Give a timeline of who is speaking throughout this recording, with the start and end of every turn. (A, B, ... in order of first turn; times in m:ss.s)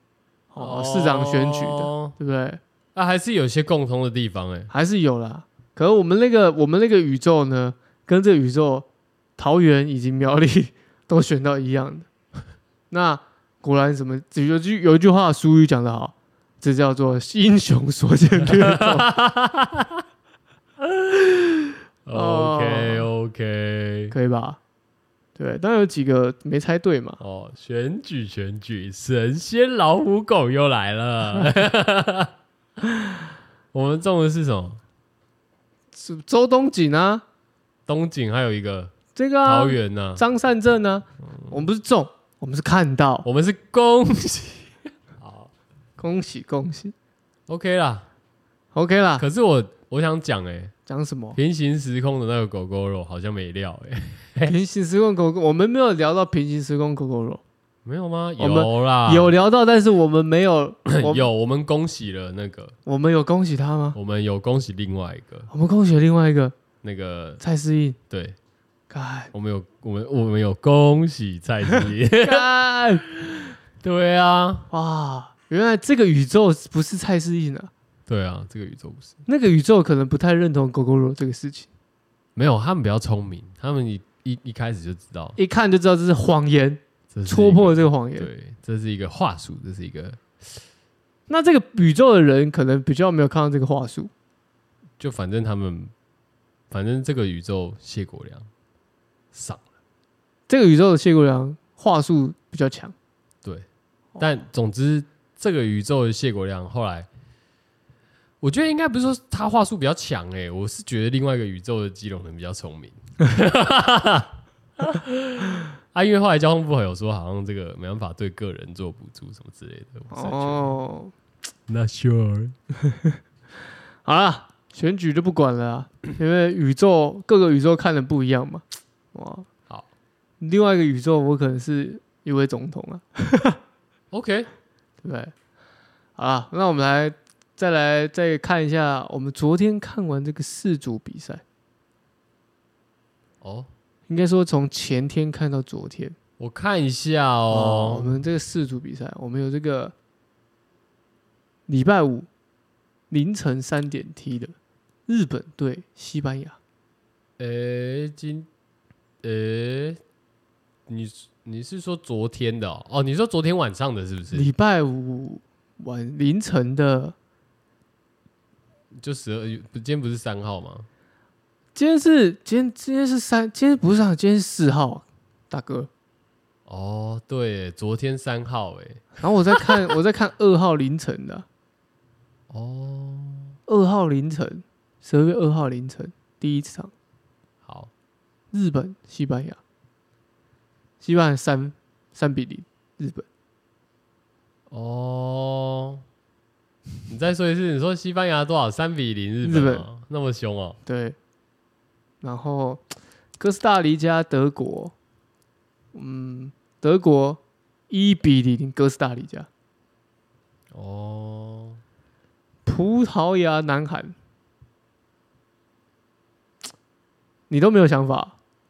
0:00.5-0:02.6 A
0:00.6-0:02.1 B
0:02.9-0:04.7 B
0:04.7-0:12.1 A
0:12.9-0:19.1 A
0:18.4-0:20.0 B
0:21.0-0:21.4 B
0:22.0-0:24.1 B
0:22.1-0:23.0 A
0:24.1-0:24.6 A
0:25.4-0:27.2 A
0:27.2-0:32.3 B
0:33.7-0:34.8 B
0:35.9-0:37.2 A
0:37.9-0:40.2 B
0:39.1-0:43.2 A
0:43.2-0:45.5 B
0:46.0-0:46.9 A
0:47.5-0:48.1 B
0:48.7-0:49.2 A
0:49.2-0:50.7 B
0:50.9-0:51.4 A
0:51.3-0:54.5 B
0:54.5-0:57.4 A
0:57.8-0:59.3 B
0:58.4-1:01.3 A
1:00.8-1:02.8 B
1:02.8-1:04.0 A
1:03.9-1:05.5 B
1:05.5-1:06.6 A
1:06.8-1:07.4 B
1:07.4-1:08.0 A
1:08.1-1:08.4 B
1:08.9-1:09.3 A
1:09.3-1:12.4 B
1:12.2-1:13.0 A
1:13.1-1:14.7 B
1:14.7-1:17.7 A
1:18.1-1:19.1 B
1:19.3-1:21.7 A
1:22.4-1:25.4 B
1:25.4-1:28.3 A
1:27.1-1:30.2 B
1:31.3-1:34.1 A
1:35.0-1:35.9 B
1:36.7-1:38.5 B
1:39.3-1:39.6 B
1:40.5-1:42.9 A
1:44.2-1:47.1 B
1:48.4-2:00.8 B
2:00.1-2:01.1 A
2:01.7-2:02.6 B
2:02.9-2:03.1 A
2:04.0-2:09.5 A
2:10.4-2:13.6 A
2:14.1-2:14.5 B
2:15.0-2:15.3 A
2:16.2-2:21.4 A
2:23.4-2:23.7 B
2:24.1-2:26.2 A
2:26.4-2:28.2 B
2:27.5-2:29.9 A
2:31.7-2:32.3 A
2:33.1-2:34.5 A
2:35.1-2:36.6 A
2:37.4-2:38.5 B
2:39.2-2:40.0 B
2:40.9-2:44.5 B
2:44.3-2:47.1 A
2:49.0-2:50.9 B
2:51.7-2:55.9 A
2:56.7-2:59.7 B
2:59.2-3:01.4 A
3:02.5-3:03.6 B
3:03.7-3:06.9 A
3:07.6-3:07.9 B
3:08.5-3:09.6 A
3:11.0-3:13.2 A
3:14.7-3:16.0 B
3:17.1-3:20.8 B
3:19.4-3:19.9 A
3:20.8-3:21.2 A
3:22.2-3:22.8 A
3:23.4-3:24.9 A
3:25.9-3:29.5 A
3:30.7-3:31.8 B
3:32.6-3:34.2 A
3:37.5-3:38.3 A